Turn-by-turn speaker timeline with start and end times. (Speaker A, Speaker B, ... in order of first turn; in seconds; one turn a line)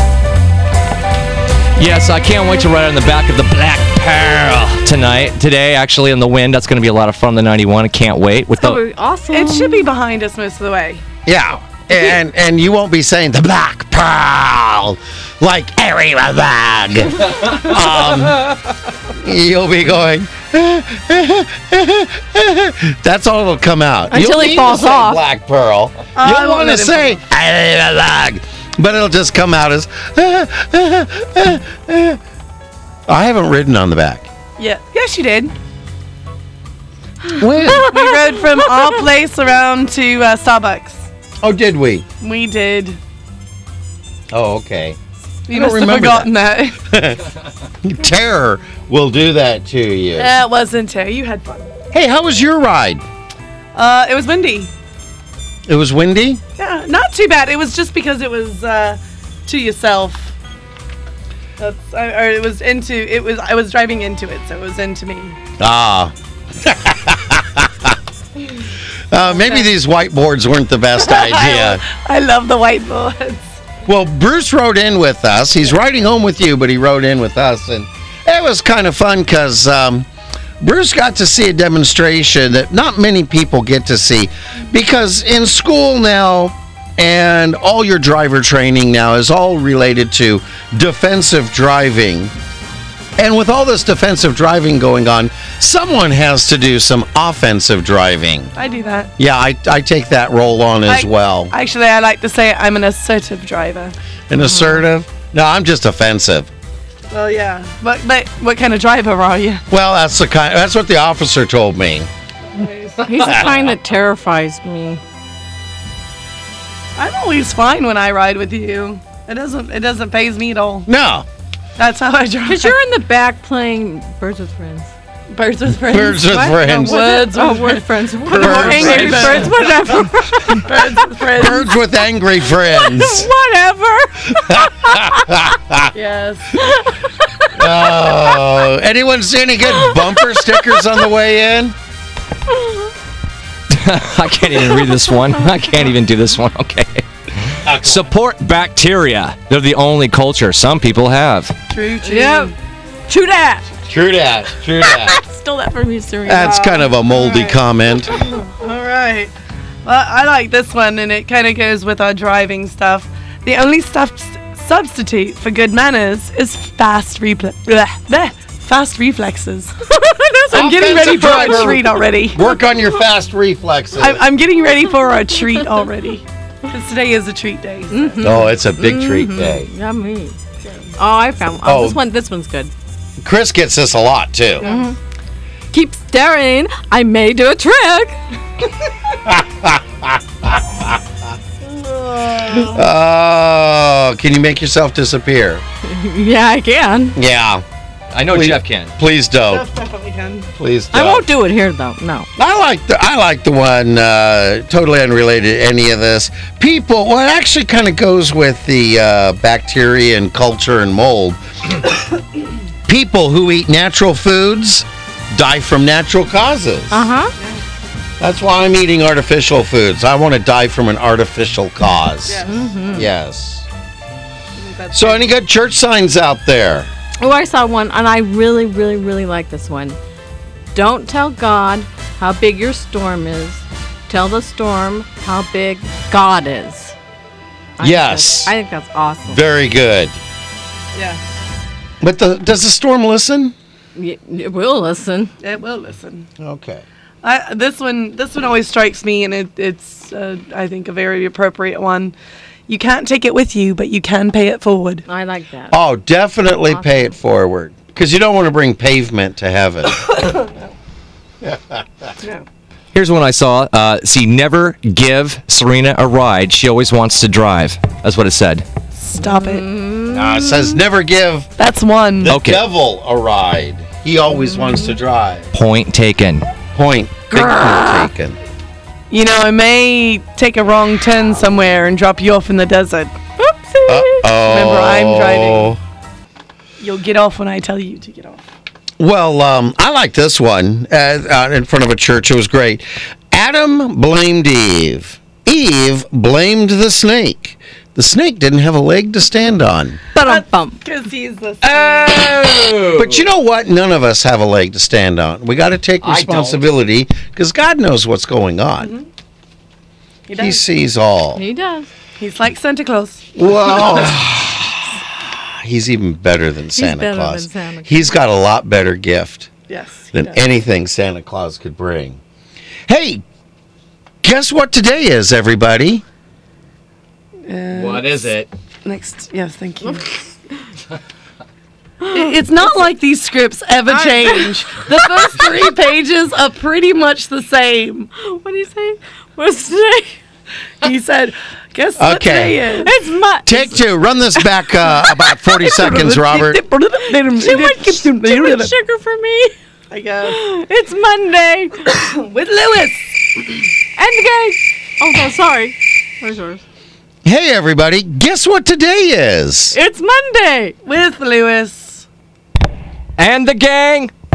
Speaker A: 1.8-8.8
Speaker B: 8.6-9.9
Speaker C: 9.3-11.0
Speaker D: 11.3-32.2
Speaker B: 24.1-25.2
Speaker C: 26.2-27.2
Speaker D: 33.1-34.3
Speaker C: 34.6-35.5
Speaker B: 37.3-38.7
Speaker D: 37.4-37.9
Speaker C: 37.8-41.1
Speaker D: 41.4-42.1
Speaker C: 42.2-43.0
Speaker D: 44.3-45.0
Speaker C: 45.5-46.8
Speaker D: 45.5-47.3
Speaker D: 47.8-50.4
Speaker C: 50.1-51.7
Speaker D: 51.9-53.0
Speaker C: 53.8-54.7
Speaker D: 55.7-56.4
Speaker C: 56.6-60.3
Speaker C: 61.6-65.4
Speaker D: 65.6-68.0
Speaker D: 69.1-71.8
Speaker C: 71.0-73.5
Speaker D: 73.8-80.1
Speaker D: 80.6-92.3
Speaker D: 93.2-98.5
Speaker C: 98.5-99.1
Speaker D: 99.2-101.5
Speaker C: 100.9-104.0
Speaker D: 104.3-106.5
Speaker B: 104.4-104.8
Speaker C: 107.1-109.6
Speaker D: 109.7-112.1
Speaker C: 112.5-113.1
Speaker B: 113.0-115.0
Speaker C: 117.0-120.9
Speaker D: 120.9-121.3
Speaker C: 121.8-122.8
Speaker B: 122.5-124.9
Speaker C: 125.3-129.6
Speaker D: 125.7-127.1
Speaker B: 126.6-130.9
Speaker D: 128.3-129.6
Speaker C: 130.5-131.7
Speaker D: 131.3-133.3
Speaker B: 132.7-135.2
Speaker D: 134.3-135.9
Speaker C: 135.9-136.6
Speaker B: 136.6-138.1
Speaker D: 137.6-141.8
Speaker B: 139.7-140.8
Speaker B: 142.5-142.8
Speaker A: 143.7-151.6
Speaker D: 147.7-148.1
Speaker C: 151.7-152.5
Speaker B: 152.1-152.5
Speaker B: 153.1-153.7
Speaker D: 153.9-155.2
Speaker B: 154.8-157.5
Speaker D: 156.2-158.2
Speaker B: 158.1-158.3
Speaker C: 158.5-159.3
Speaker C: 159.8-169.8
Speaker B: 169.8-172.0
Speaker C: 170.5-172.4
Speaker D: 170.5-174.2
Speaker C: 174.0-178.2
Speaker B: 177.9-180.4
Speaker D: 178.2-179.7
Speaker C: 180.6-180.9
Speaker B: 181.0-182.7
Speaker D: 181.7-182.0
Speaker D: 183.2-184.7
Speaker C: 184.6-184.9
Speaker B: 184.6-185.0
Speaker B: 185.7-188.2
Speaker D: 189.2-191.0
Speaker C: 191.8-192.7
Speaker D: 192.6-195.6
Speaker B: 195.8-197.2
Speaker D: 197.2-197.6
Speaker A: 198.1-198.9
Speaker D: 198.3-199.7
Speaker C: 199.5-200.5
Speaker D: 200.6-201.3
Speaker B: 200.9-202.3
Speaker D: 202.4-211.4
Speaker D: 212.9-217.1
Speaker B: 216.9-217.3
Speaker D: 218.2-223.7
Speaker C: 222.3-222.6
Speaker B: 222.4-223.1
Speaker C: 224.6-225.3
Speaker D: 224.9-226.9
Speaker B: 227.2-230.0
Speaker B: 230.7-236.9
Speaker B: 237.8-239.4
Speaker D: 237.8-238.5
Speaker D: 239.3-240.2
Speaker C: 240.9-241.2
Speaker D: 242.0-243.6
Speaker B: 244.0-245.3
Speaker C: 245.4-246.3
Speaker D: 246.4-246.8
Speaker C: 247.2-252.1
Speaker C: 252.7-255.1
Speaker B: 255.1-255.8
Speaker D: 255.7-260.2
Speaker B: 256.7-257.1
Speaker D: 261.4-262.1
Speaker A: 262.9-268.6
Speaker C: 269.0-269.7
Speaker B: 269.2-270.8
Speaker D: 270.1-271.5
Speaker C: 271.6-272.3
Speaker D: 272.2-275.5
Speaker A: 272.3-272.6
Speaker B: 274.3-275.0
Speaker A: 275.5-276.5
Speaker D: 276.7-278.4
Speaker C: 279.1-283.1
Speaker B: 283.4-284.3
Speaker D: 283.9-285.8
Speaker C: 284.4-285.7
Speaker C: 286.8-288.4
Speaker D: 289.0-300.0
Speaker B: 300.1-300.8
Speaker C: 300.2-302.3
Speaker A: 301.6-303.3
Speaker D: 302.9-308.9
Speaker A: 306.0-306.7
Speaker C: 308.8-309.1
Speaker C: 310.3-310.6
Speaker D: 310.4-311.4
Speaker B: 311.4-311.9
Speaker C: 312.2-313.2
Speaker D: 313.4-319.5
Speaker B: 316.8-318.1
Speaker C: 319.7-320.4
Speaker D: 320.1-322.2
Speaker D: 322.9-323.2
Speaker D: 324.2-326.0
Speaker C: 327.5-328.2
Speaker A: 327.7-328.5
Speaker C: 328.9-330.1
Speaker B: 332.0-332.6
Speaker C: 332.1-338.1
Speaker B: 333.9-335.0
Speaker B: 338.2-340.2
Speaker C: 340.8-342.9
Speaker D: 342.0-342.7
Speaker B: 342.8-343.8
Speaker D: 343.4-346.6
Speaker C: 345.6-348.7
Speaker B: 347.3-349.6
Speaker C: 349.9-350.4
Speaker B: 350.3-351.9
Speaker C: 351.9-353.2
Speaker B: 354.0-356.6
Speaker D: 357.2-359.8
Speaker B: 359.7-360.8
Speaker C: 360.9-362.1
Speaker A: 363.2-364.1